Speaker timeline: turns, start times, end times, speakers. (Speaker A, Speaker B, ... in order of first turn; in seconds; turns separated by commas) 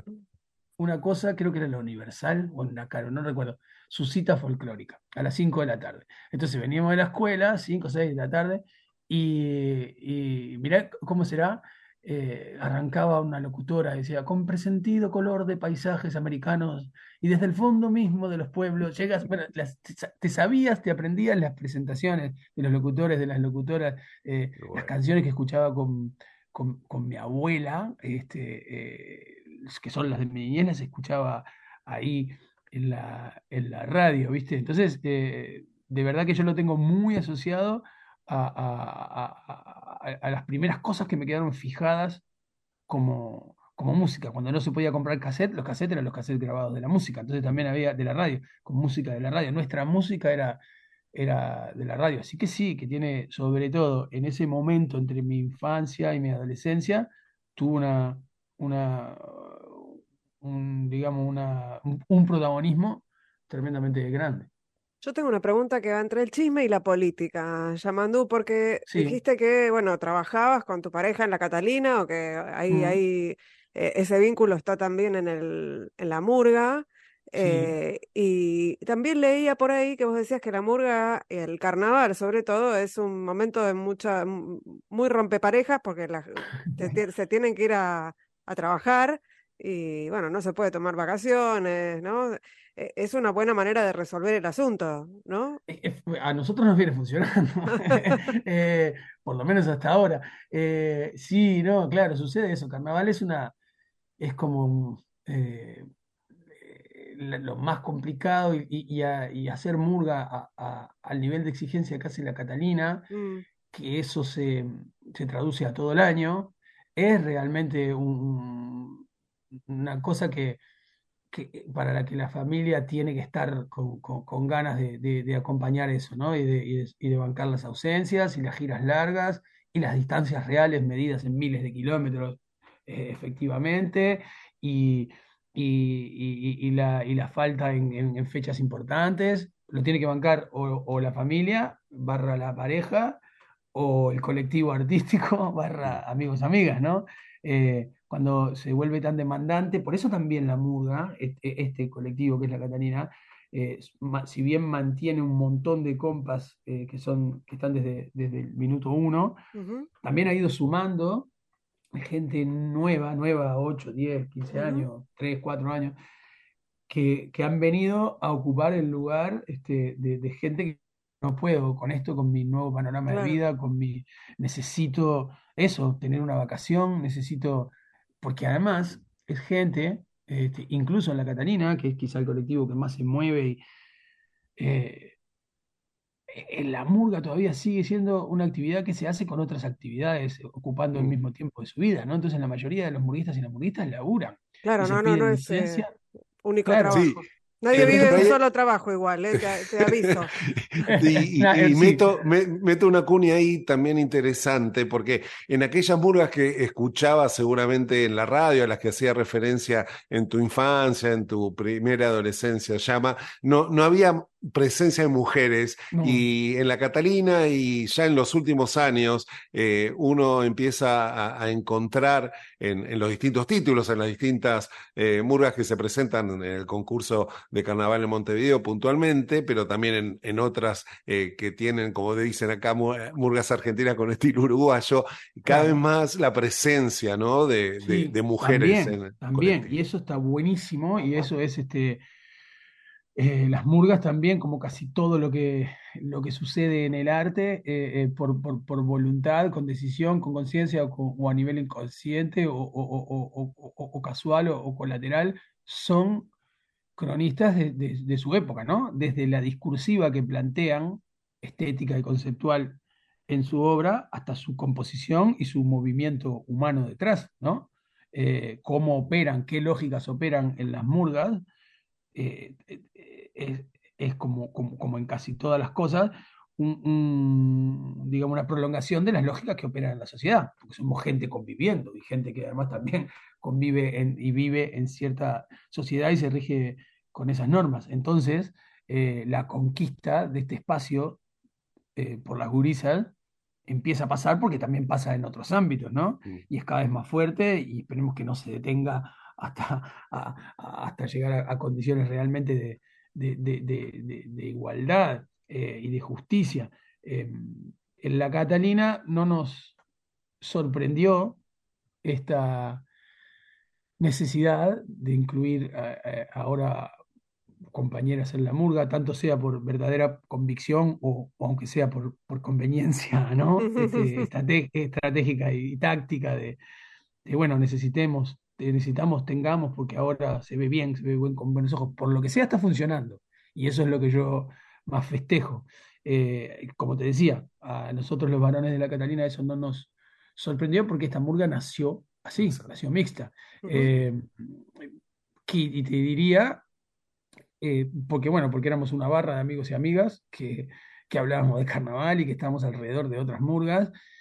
Speaker A: 0.8-42.2, Speaker B: 24.6-24.9, Speaker A: 42.9-50.6, Speaker A: 51.1-64.5, Speaker C: 65.0-95.6, Speaker A: 68.9-69.2, Speaker A: 72.7-73.0, Speaker A: 77.4-77.7, Speaker A: 95.7-103.5, Speaker A: 104.2-105.9, Speaker A: 106.5-113.1, Speaker C: 113.1-113.4, Speaker A: 113.7-119.1, Speaker A: 119.7-120.6, Speaker A: 121.3-143.2, Speaker A: 143.8-159.4, Speaker C: 159.6-159.9, Speaker A: 160.0-161.3, Speaker A: 161.9-166.0, Speaker C: 164.6-164.8, Speaker A: 166.9-183.6, Speaker C: 173.1-173.4, Speaker A: 184.6-185.2, Speaker A: 186.3-195.9, Speaker C: 194.6-195.8, Speaker C: 196.4-200.3, Speaker A: 196.7-197.1, Speaker B: 196.9-197.2, Speaker B: 197.7-198.4, Speaker A: 197.8-198.3, Speaker B: 199.8-239.7, Speaker A: 200.9-202.1, Speaker A: 215.9-216.2, Speaker A: 235.5-235.8, Speaker A: 237.8-242.0, Speaker A: 243.2-256.3, Speaker A: 257.0-271.4, Speaker A: 272.1-291.2, Speaker A: 292.0-293.1, Speaker A: 293.7-309.8, Speaker A: 310.4-311.4, Speaker A: 312.0-312.9, Speaker A: 314.0-317.0, Speaker A: 317.7-326.6, Speaker C: 323.6-324.3, Speaker A: 327.2-344.9, Speaker B: 342.4-342.7, Speaker C: 343.6-343.9, Speaker A: 345.5-346.6, Speaker A: 347.6-353.9